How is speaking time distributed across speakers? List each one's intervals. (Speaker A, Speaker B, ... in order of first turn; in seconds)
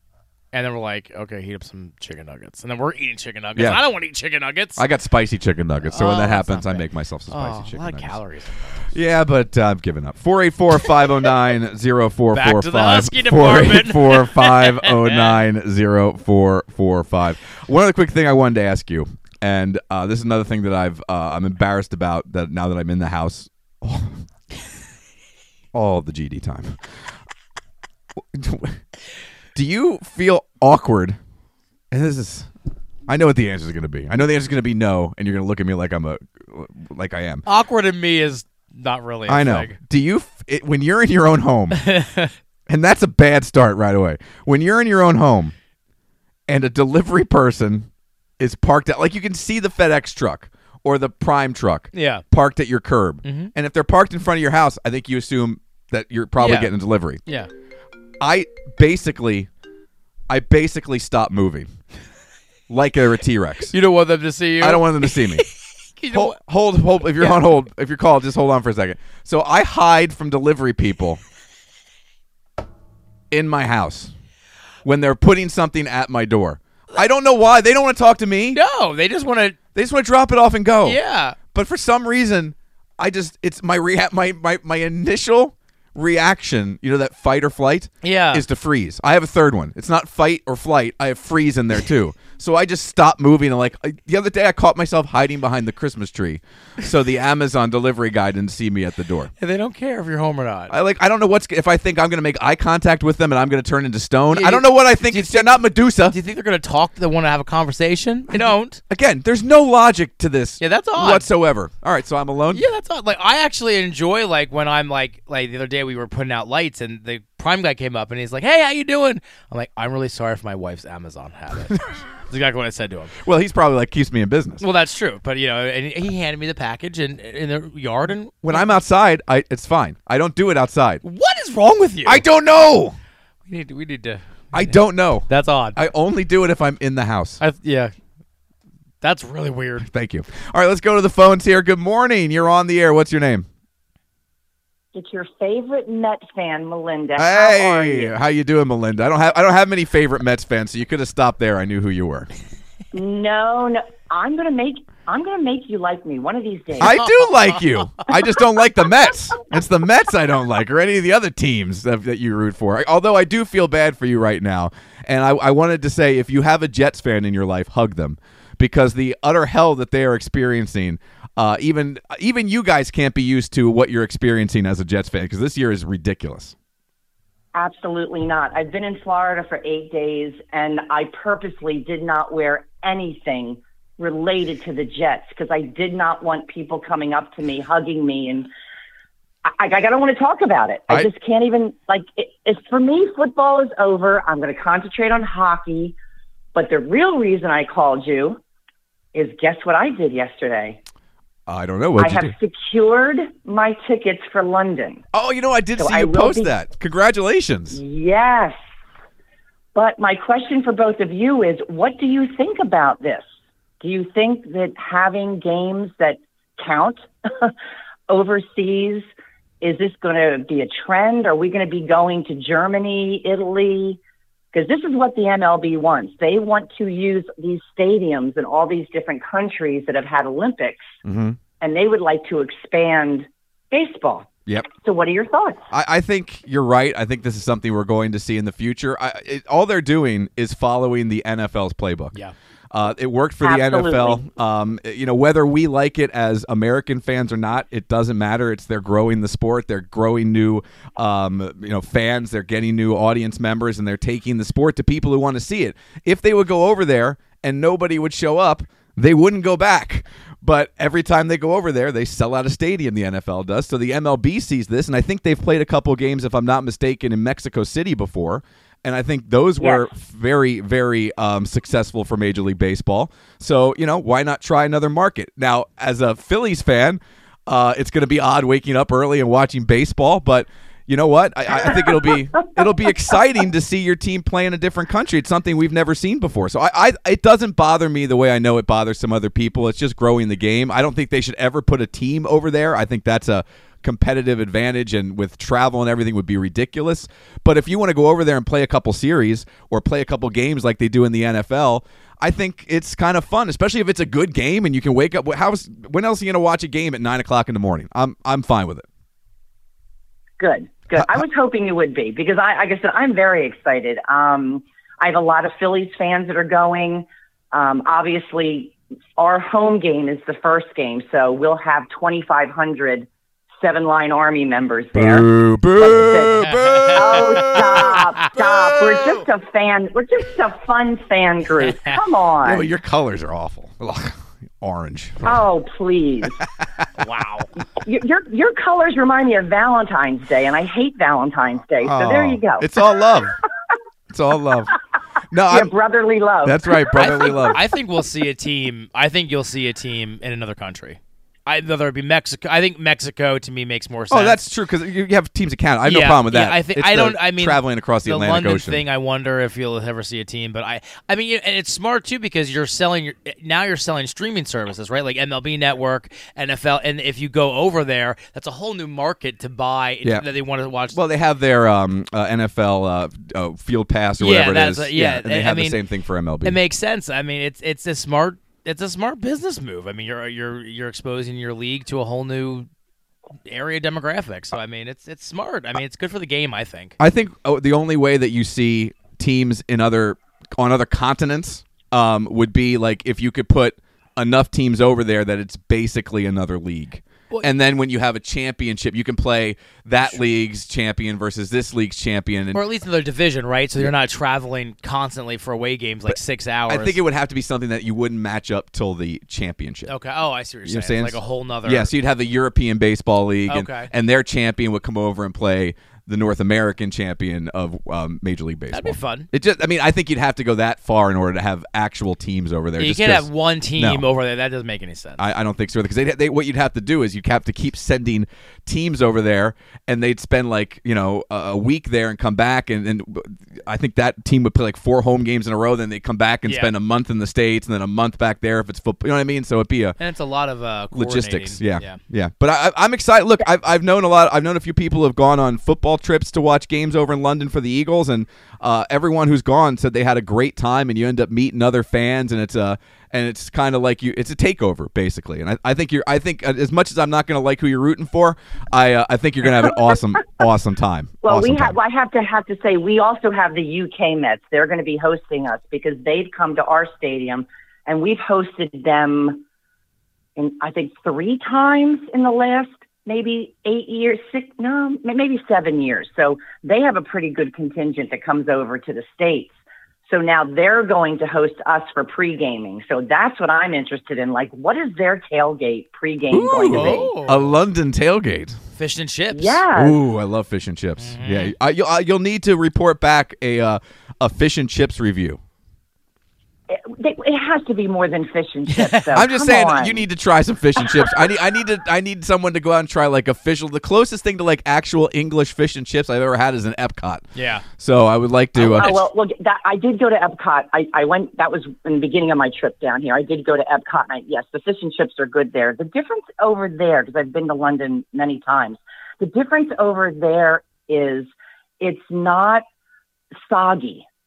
Speaker A: 0.5-4.8, 5.8-8.9, 12.3-15.4, 37.5-39.8, 41.7-42.3, 51.9-52.2, 53.2-53.5, 56.4-56.7, 63.7-66.4, 67.1-67.4, 78.5-79.6, 80.8-81.4, 88.0-88.4, 99.4-100.8, 104.3-108.8, 110.6-111.3, 112.5-123.2, 124.6-128.7, 131.0-132.2, 133.5-135.8, 137.4-137.9, 139.0-139.9, 156.9-157.4, 326.4-328.3, 331.7-332.0, 337.0-337.5, 346.9-354.4, 355.9-371.0, 374.2-375.8, 376.4-382.7, 383.5-387.0, 402.5-407.0, 409.9-411.9, 413.5-413.9, 418.7-419.3, 422.8-425.2, 436.5-436.7, 440.0-442.0, 486.7-487.6, 488.8-489.6, 491.0-491.5, 498.7-499.1, 507.4-507.6
Speaker B: 3.6-3.8, 4.8-8.2, 8.9-24.2, 25.7-26.8, 28.3-28.8, 29.6-31.2, 31.9-32.5, 33.1-37.4, 39.3-41.8, 42.7-45.5, 46.5-57.2, 58.2-59.5, 60.3-61.7, 62.7-63.7, 64.6-65.4, 66.1-71.2, 73.3-74.1, 74.8-78.6, 79.8-81.0, 81.5-99.3, 100.7-106.2, 108.9-112.6, 123.2-124.6, 128.4-131.0, 132.1-133.0, 134.5-137.4, 139.8-143.5, 147.2-152.3, 156.8-176.6, 201.5-202.3, 205.1-207.8, 231.1-231.4, 235.7-242.2, 242.7-308.9, 325.0-329.3, 332.4-335.4, 336.2-336.9, 341.8-343.4, 344.1-344.7, 345.3-345.7, 346.4-347.6, 354.1-358.8, 370.9-376.6, 387.0-402.6, 406.7-409.9, 410.7-424.0, 425.2-440.0, 440.9-461.8, 486.3-488.6, 489.8-495.4, 499.1-509.0
Speaker C: 144.9-148.2, 152.9-157.0, 177.6-188.5, 189.4-195.9, 196.6-198.4, 199.1-200.8, 202.0-205.0, 205.8-206.5, 207.7-208.6, 209.8-213.2, 213.8-217.5, 218.1-219.1, 219.6-224.0, 224.5-230.9, 231.6-235.6, 243.4-244.2, 269.6-269.9, 310.4-332.7, 335.2-336.4, 337.7-342.9, 345.5-347.6, 461.2-469.4, 470.4-479.6, 480.1-487.1, 489.3-490.0, 496.7-500.1, 508.6-522.6, 523.4-524.0